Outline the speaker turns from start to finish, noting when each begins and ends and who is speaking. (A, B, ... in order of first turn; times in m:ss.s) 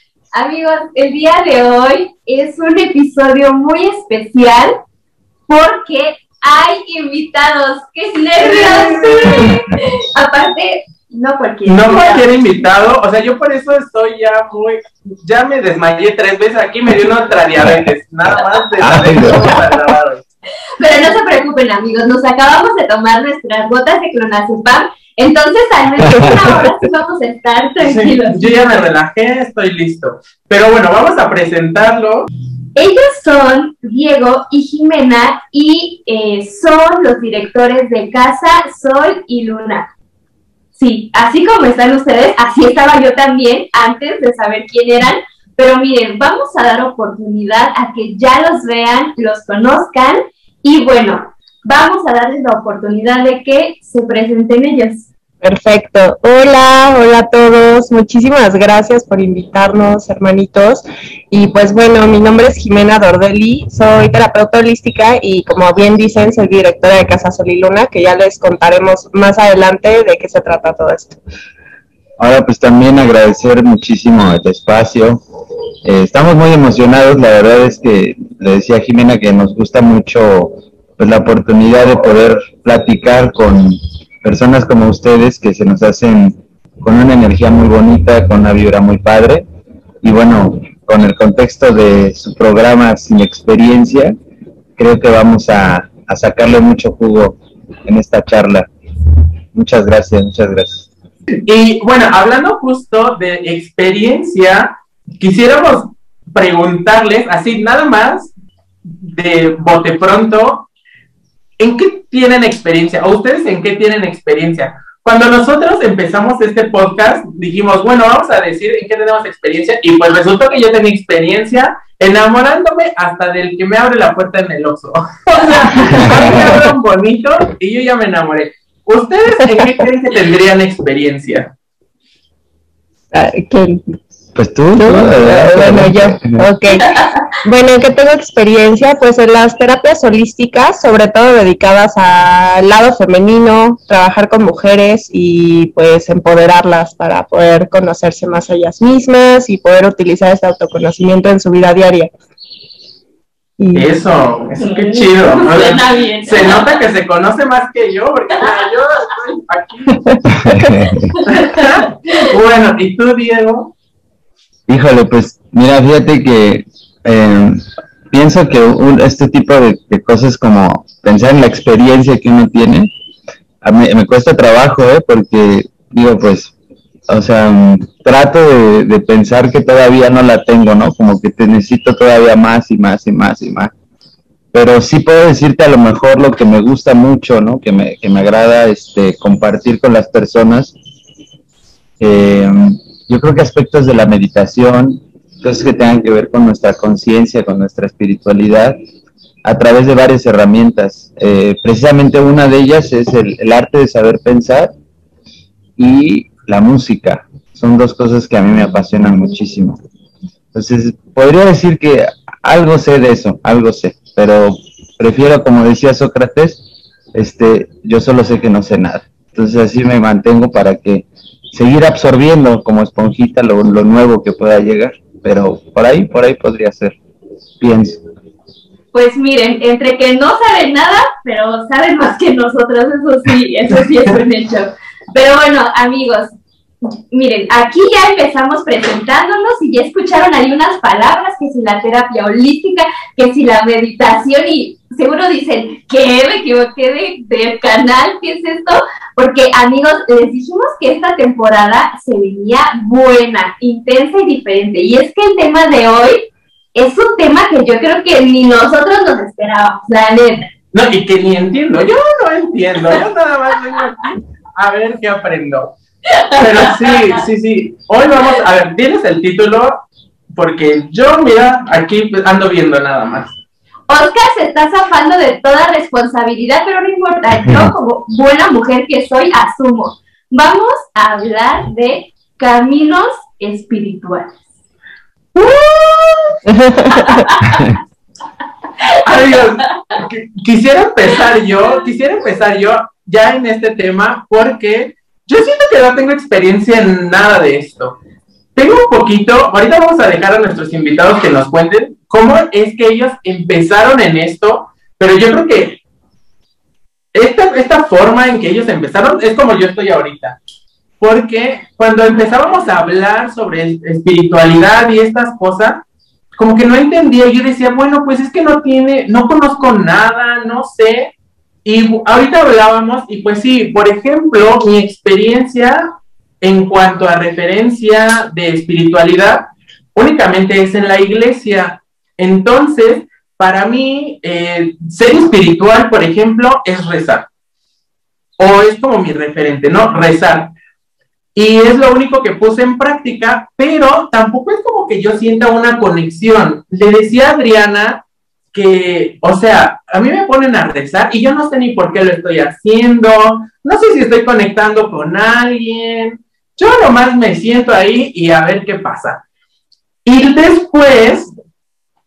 0:00.3-0:04.7 A
0:05.5-0:12.3 A
0:08.4-0:09.5 B
0:11.6-0:20.2 B
0:17.6-0:17.9 C
0:18.8-0:19.8 C
0:20.8-0:28.5 A
0:26.0-0:26.7 C
0:27.8-0:32.3 B
0:32.8-0:39.9 A
0:40.8-0:55.1 A
0:55.4-1:11.2 D
1:12.2-1:15.2 C
1:15.8-1:29.4 C
1:30.0-1:34.1 C
1:34.8-1:38.7 C
1:39.5-1:40.9 C
1:41.4-1:48.3 B
1:49.0-1:50.7 B
1:51.6-2:11.5 B
2:05.7-2:06.5 D
2:05.8-2:06.5 C
2:13.1-2:13.8 D
2:14.3-2:16.5 C
2:14.7-2:32.1 D
2:33.6-2:33.8 D
2:33.7-2:40.1 B
2:34.6-2:36.7 A
2:40.1-2:40.8 D
2:40.3-2:41.2 C
2:41.3-2:43.7 B
2:41.3-2:41.6 A
2:44.7-2:52.9 C
2:53.6-2:56.5 C
2:57.1-3:03.7 C
3:04.5-3:10.8 C
3:12.0-3:18.8 C
3:19.4-3:24.7 C
3:25.8-3:29.8 C
3:30.5-3:36.6 C
3:37.1-3:47.0 C
3:47.6-3:48.0 C
3:48.9-3:56.3 A
3:57.1-4:16.2 A
4:16.7-4:20.5 A
4:20.7-4:25.8 B
4:26.3-4:29.8 B
4:30.3-4:33.4 B
4:33.9-4:44.4 A
4:37.5-4:37.7 C
4:46.4-4:47.3 D
4:46.9-4:47.4 A
4:47.5-4:47.8 C
4:49.0-4:58.0 B
4:58.6-5:05.8 B
5:07.1-5:10.4 B
5:11.0-5:15.8 B
5:16.4-5:21.1 B
5:21.6-5:25.9 B
5:26.4-5:37.3 B
5:38.4-5:40.5 B
5:41.3-5:59.2 B
6:00.0-6:01.3 B